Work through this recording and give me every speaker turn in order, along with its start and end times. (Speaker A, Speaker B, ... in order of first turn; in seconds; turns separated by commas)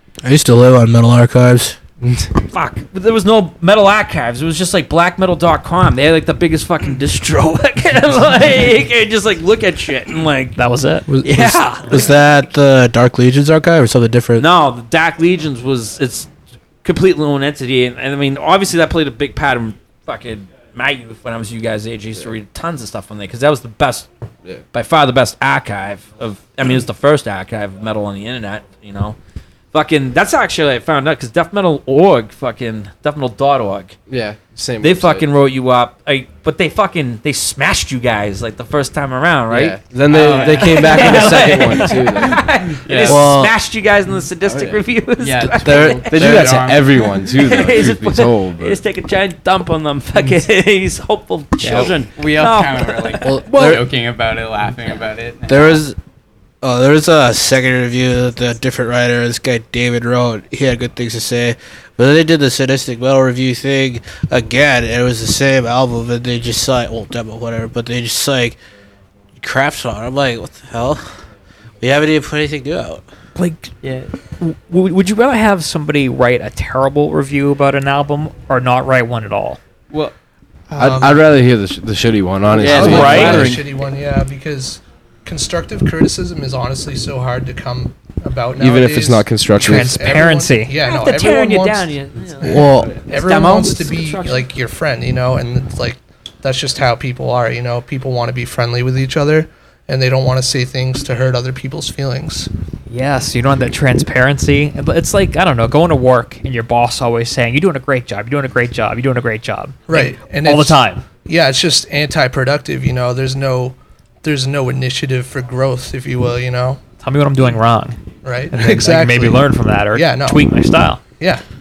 Speaker A: 0.2-1.8, Speaker B: 2.5-10.6, Speaker C: 10.6-11.1, Speaker A: 11.1-14.5, Speaker B: 11.2-12.1, Speaker B: 14.4-16.3, Speaker B: 16.8-24.1, Speaker B: 24.7-29.2, Speaker B: 29.7-34.0, Speaker D: 34.1-35.3, Speaker B: 34.8-53.8, Speaker D: 39.5-42.5, Speaker E: 40.1-41.5, Speaker E: 42.8-43.3, Speaker A: 43.1-43.5, Speaker D: 44.5-44.8, Speaker E: 45.2-47.3, Speaker A: 45.6-46.7, Speaker D: 45.7-48.8, Speaker E: 51.6-55.8, Speaker A: 53.3-53.8, Speaker A: 55.5-56.0, Speaker A: 56.6-68.6, Speaker A: 69.4-71.2, Speaker A: 71.8-73.0, Speaker C: 73.4-73.7, Speaker E: 73.8-74.1, Speaker C: 74.3-79.6, Speaker C: 80.7-81.1, Speaker F: 80.8-81.2, Speaker D: 80.9-83.6, Speaker B: 82.5-83.6, Speaker F: 82.6-102.5, Speaker C: 82.6-83.5, Speaker D: 88.6-90.0, Speaker C: 89.5-90.8, Speaker B: 90.8-94.5, Speaker A: 92.4-92.9, Speaker C: 102.9-111.0, Speaker F: 109.9-116.8, Speaker C: 117.0-118.0, Speaker F: 118.2-120.5, Speaker C: 118.5-121.0